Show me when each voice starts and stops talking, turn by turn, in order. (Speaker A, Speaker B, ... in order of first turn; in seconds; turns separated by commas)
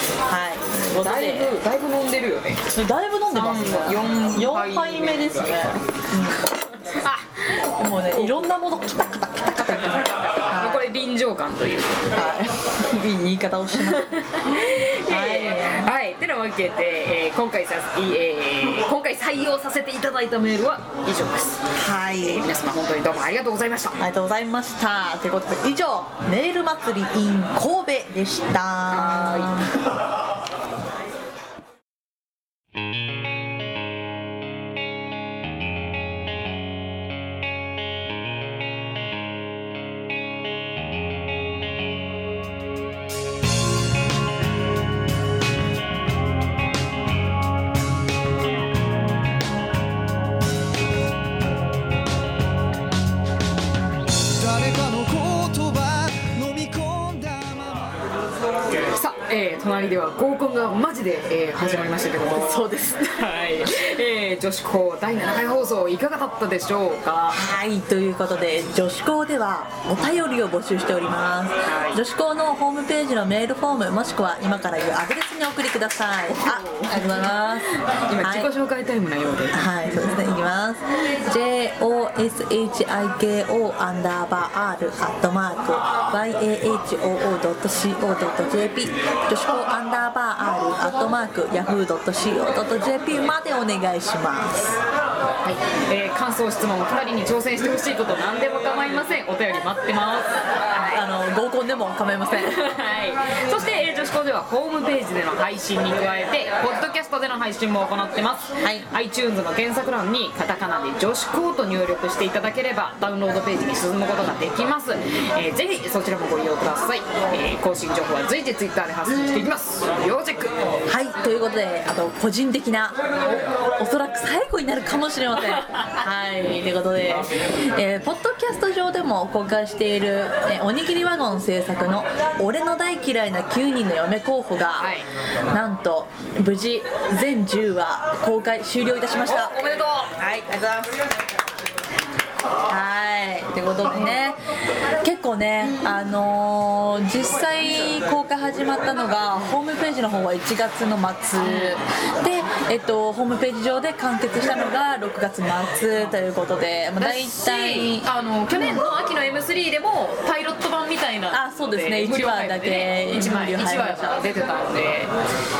Speaker A: 0.2-1.6, Speaker B: 0.9-2.6, Speaker A: 2.7-6.5, Speaker B: 3.3-5.7, Speaker B: 6.7-8.4, Speaker A: 7.8-10.9, Speaker B: 9.6-12.3, Speaker A: 12.1-15.9, Speaker B: 13.8-21.6, Speaker A: 21.8-22.4, Speaker B: 22.2-24.0, Speaker A: 24.0-29.7, Speaker B: 28.9-29.6, Speaker C: 54.3-58.0, Speaker B: 58.9-67.4, Speaker A: 62.2-63.2, Speaker A: 67.3-78.5, Speaker B: 71.6-72.0, Speaker B: 76.4-80.1, Speaker A: 79.5-94.8, Speaker B: 95.4-101.0, Speaker A: 100.9-102.6, Speaker B: 102.4-120.8, Speaker A: 108.6-108.9, Speaker A: 120.9-134.9, Speaker B: 134.8-135.0, Speaker A: 135.5-139.7, Speaker B: 139.2-140.1, Speaker A: 140.2-141.0, Speaker A: 142.7-144.4, Speaker B: 143.9-144.2, Speaker A: 145.0-158.8, Speaker B: 151.4-151.8, Speaker B: 157.0-165.1, Speaker A: 161.3-164.2